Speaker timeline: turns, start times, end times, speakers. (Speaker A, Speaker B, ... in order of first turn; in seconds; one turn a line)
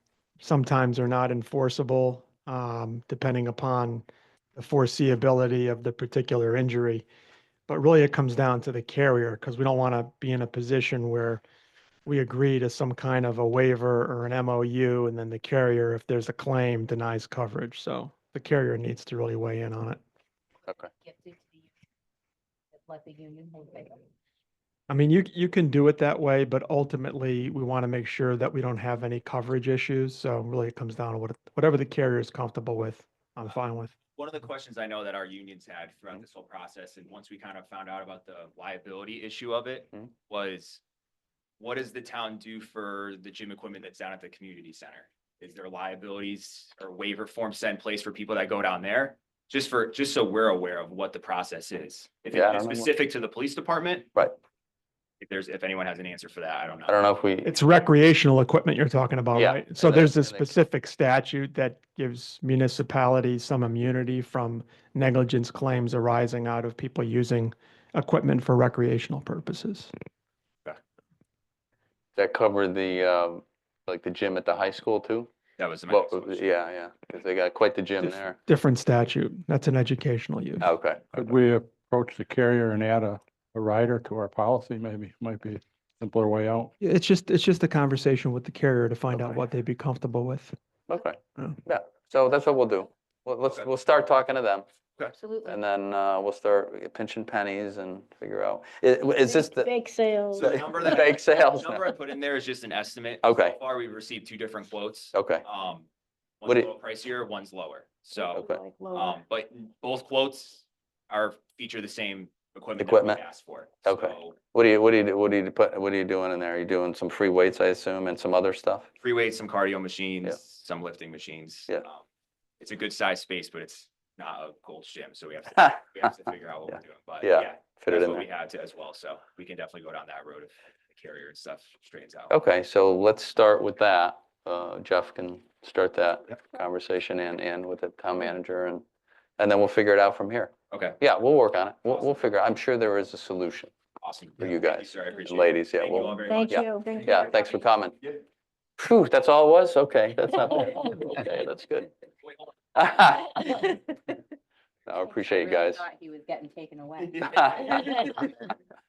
Speaker A: 0.4-7.0
Speaker A: 7.7-11.4
Speaker A: 12.0-20.0
Speaker B: 21.0-21.6
Speaker B: 22.7-24.0
Speaker A: 24.9-33.9
Speaker C: 34.1-40.8
Speaker C: 41.6-54.1
Speaker D: 52.3-52.9
Speaker C: 55.2-57.0
Speaker D: 56.9-57.5
Speaker A: 57.4-69.9
Speaker D: 59.3-60.5
Speaker D: 72.2-75.3
Speaker C: 75.6-76.5
Speaker D: 75.9-78.4
Speaker A: 78.0-80.7
Speaker D: 80.6-81.2
Speaker E: 81.1-86.7
Speaker A: 86.8-90.5
Speaker D: 89.1-89.4
Speaker D: 90.9-94.7
Speaker B: 95.2-95.6
Speaker D: 95.4-99.8
Speaker F: 99.3-100.5
Speaker D: 100.3-101.9
Speaker C: 100.3-105.9
Speaker D: 103.2-103.5
Speaker D: 105.1-105.4
Speaker C: 106.4-114.4
Speaker F: 108.3-109.2
Speaker D: 108.3-108.7
Speaker D: 112.8-113.2
Speaker D: 113.8-118.9
Speaker C: 119.0-122.0
Speaker C: 122.6-132.3
Speaker D: 127.2-128.2
Speaker D: 132.3-138.8
Speaker D: 139.4-143.7
Speaker C: 140.7-141.0
Speaker C: 144.0-146.8
Speaker D: 144.4-148.1
Speaker F: 146.2-147.2
Speaker B: 147.1-147.6
Speaker D: 148.8-151.9
Speaker D: 152.7-153.8
Speaker D: 154.9-155.8
Speaker B: 155.0-158.1
Speaker D: 157.2-157.7